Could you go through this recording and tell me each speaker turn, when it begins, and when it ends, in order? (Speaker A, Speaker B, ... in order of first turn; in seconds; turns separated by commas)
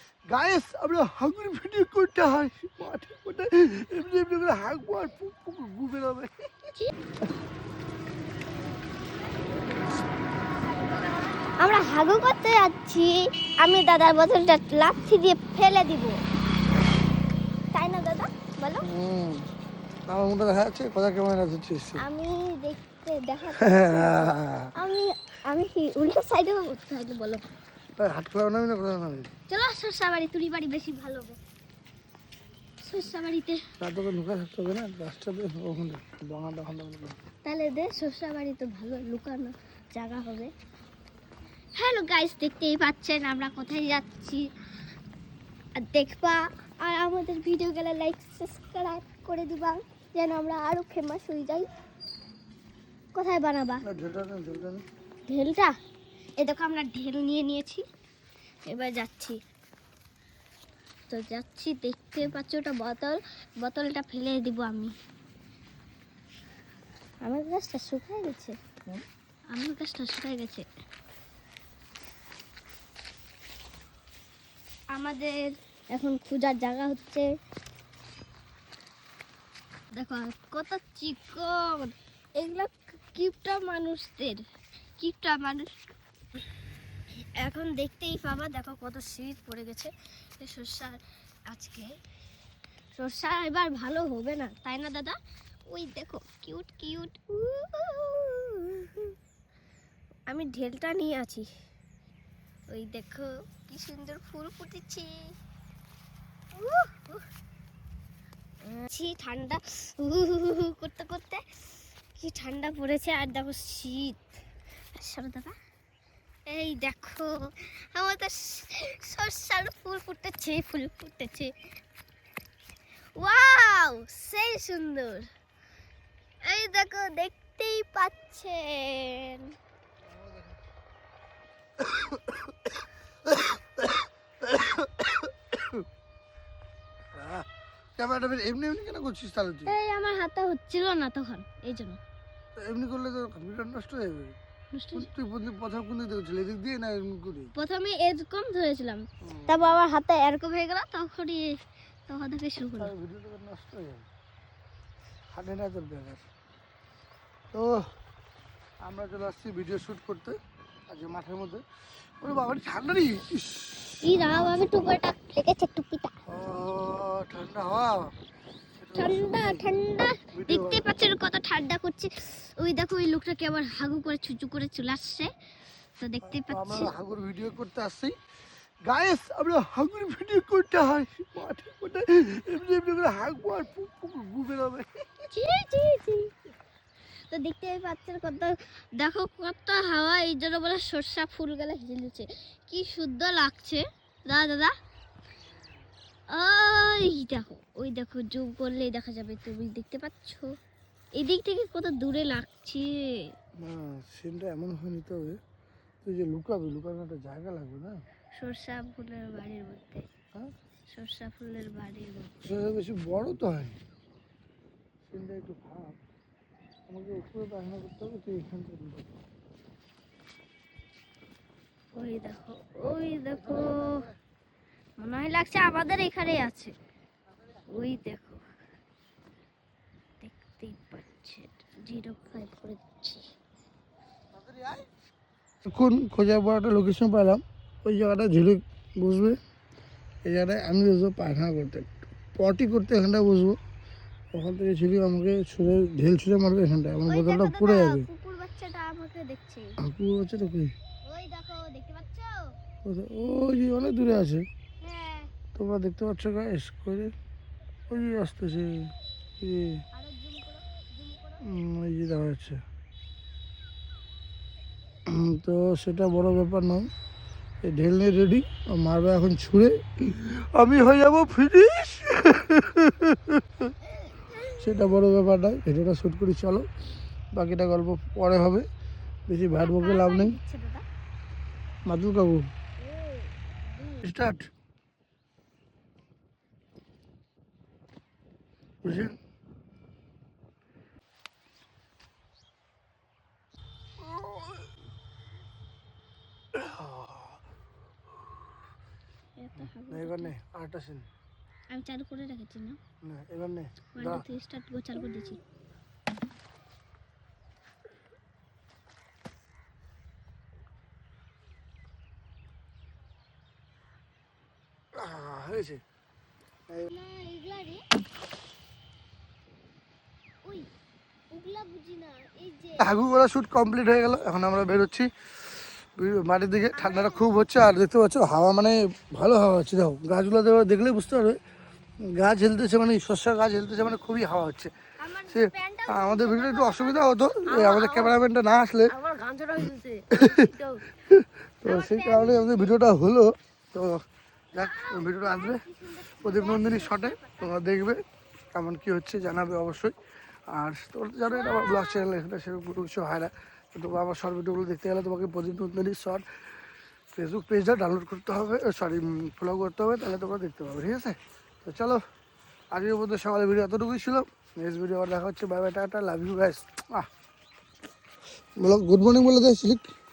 Speaker A: 0.3-6.7, Speaker B: 11.6-16.2, Speaker B: 17.7-18.9, Speaker A: 18.8-19.5, Speaker A: 20.1-22.0, Speaker B: 22.0-27.4, Speaker A: 23.6-24.7, Speaker A: 28.0-29.3, Speaker B: 29.5-31.4, Speaker B: 32.8-33.6, Speaker A: 33.8-37.2, Speaker B: 37.5-40.5, Speaker B: 41.8-44.5, Speaker B: 45.8-51.7, Speaker B: 53.1-53.8, Speaker A: 53.8-54.9, Speaker B: 55.3-55.7, Speaker B: 56.4-57.8, Speaker B: 58.7-59.4, Speaker B: 61.1-64.9, Speaker B: 67.2-68.6, Speaker B: 69.5-70.7, Speaker B: 74.9-77.3, Speaker B: 80.0-84.4, Speaker B: 85.0-85.7, Speaker B: 87.4-91.9, Speaker B: 93.0-95.2, Speaker B: 95.7-99.2, Speaker B: 100.3-101.5, Speaker B: 102.7-105.2, Speaker B: 106.5-107.2, Speaker B: 108.6-114.3, Speaker B: 115.0-115.5, Speaker B: 116.5-121.5, Speaker B: 123.2-125.3, Speaker B: 126.4-129.6, Speaker A: 131.8-132.4, Speaker A: 133.3-135.8, Speaker A: 137.2-137.5, Speaker A: 138.0-139.8, Speaker B: 139.7-142.0, Speaker A: 142.6-144.4, Speaker B: 144.7-145.1, Speaker A: 144.9-147.5, Speaker B: 147.6-151.5, Speaker A: 149.2-149.7, Speaker B: 152.1-152.9, Speaker A: 152.8-154.1, Speaker A: 155.3-156.3, Speaker A: 157.5-157.9, Speaker A: 158.8-161.6, Speaker A: 162.2-164.6, Speaker B: 164.0-166.2, Speaker A: 166.3-168.1, Speaker A: 168.8-169.7, Speaker B: 168.9-175.3, Speaker A: 170.3-170.9, Speaker B: 176.0-176.9, Speaker A: 176.2-178.2, Speaker A: 178.8-185.2, Speaker B: 185.3-186.3, Speaker B: 187.3-194.7, Speaker B: 196.3-200.5, Speaker B: 201.2-203.3, Speaker A: 203.6-205.4, Speaker A: 206.0-208.0, Speaker B: 208.4-210.1, Speaker B: 210.9-212.6, Speaker A: 212.4-213.8, Speaker A: 215.1-216.0, Speaker A: 216.9-219.1, Speaker B: 221.9-224.1, Speaker A: 223.4-224.1, Speaker B: 225.0-226.7, Speaker B: 227.7-228.4, Speaker B: 230.2-233.3, Speaker A: 234.3-234.9, Speaker A: 235.6-239.4, Speaker A: 240.2-243.6, Speaker A: 244.3-248.1, Speaker B: 247.1-249.7, Speaker A: 249.8-250.7, Speaker B: 251.0-252.5, Speaker A: 252.8-254.5, Speaker B: 254.8-255.3, Speaker A: 255.6-257.1, Speaker A: 257.9-258.9, Speaker A: 259.4-259.8, Speaker B: 259.9-261.6, Speaker A: 261.4-262.6, Speaker A: 265.1-266.9, Speaker A: 267.6-273.7, Speaker B: 274.1-274.9, Speaker A: 274.5-276.7, Speaker A: 277.3-278.7, Speaker A: 279.3-280.4, Speaker B: 279.6-280.9, Speaker A: 281.9-282.5, Speaker B: 282.8-284.1, Speaker A: 284.0-284.5, Speaker A: 288.8-289.1, Speaker A: 294.0-294.6, Speaker A: 296.5-297.4, Speaker B: 299.4-300.3, Speaker A: 299.6-301.1, Speaker B: 301.7-302.8, Speaker A: 303.0-304.2, Speaker B: 303.9-305.4, Speaker A: 315.0-315.8, Speaker B: 316.9-317.9, Speaker B: 321.3-323.0, Speaker A: 322.8-325.1, Speaker A: 325.9-331.4, Speaker B: 326.7-327.5, Speaker A: 332.0-334.7, Speaker B: 335.0-338.1, Speaker A: 335.3-339.0, Speaker B: 338.9-340.8, Speaker A: 340.1-345.6, Speaker B: 341.6-342.8, Speaker B: 344.5-347.5, Speaker A: 346.2-348.0, Speaker A: 348.5-349.9, Speaker A: 350.5-356.3, Speaker B: 351.3-352.1, Speaker A: 357.2-362.0, Speaker A: 362.7-367.1, Speaker A: 368.6-369.9